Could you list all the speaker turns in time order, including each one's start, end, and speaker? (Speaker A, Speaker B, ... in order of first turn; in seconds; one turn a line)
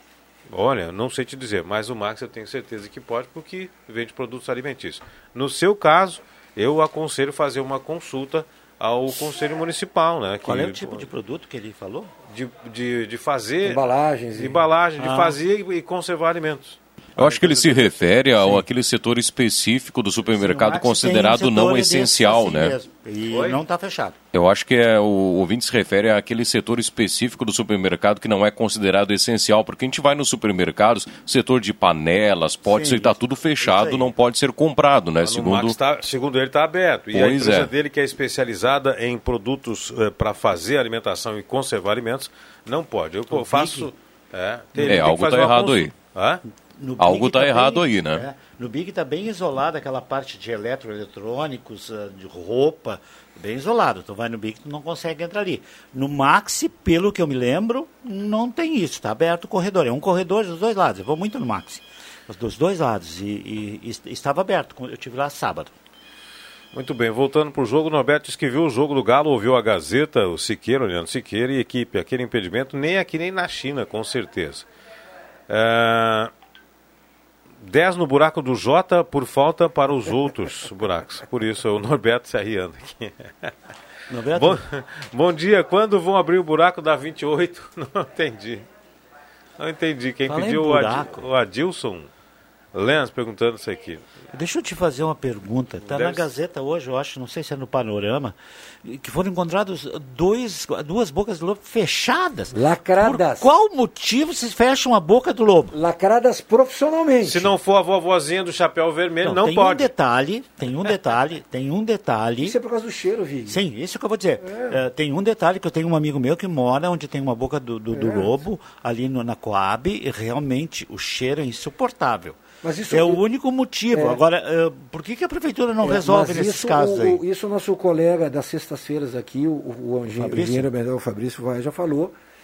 Speaker A: 0.5-11.1
Speaker B: 10.4-12.1
Speaker A: 12.3-18.1
Speaker C: 13.6-14.6
Speaker B: 15.0-15.3
Speaker D: 17.2-22.8
Speaker B: 20.3-24.2
Speaker A: 23.3-23.6
Speaker D: 24.3-35.8
Speaker B: 32.7-34.1
Speaker A: 35.2-46.4
Speaker D: 37.1-37.7
Speaker B: 43.3-43.9
Speaker D: 44.8-45.9
Speaker B: 46.8-65.7
Speaker D: 47.0-48.2
Speaker A: 66.7-74.7
Speaker A: 75.5-76.3
Speaker A: 77.6-83.5
Speaker B: 84.1-84.6
Speaker A: 84.3-88.7
Speaker A: 89.6-92.1
Speaker B: 90.3-91.2
Speaker A: 92.7-94.0
Speaker B: 94.3-105.8
Speaker A: 95.9-96.3
Speaker C: 102.5-103.5
Speaker C: 105.7-107.5
Speaker A: 107.2-109.9
Speaker B: 109.2-112.5
Speaker C: 112.4-113.7
Speaker B: 113.5-122.4
Speaker C: 114.4-114.8
Speaker C: 117.9-118.3
Speaker C: 122.6-123.2
Speaker B: 122.9-127.2
Speaker C: 123.9-124.2
Speaker C: 125.8-132.1
Speaker B: 130.2-130.7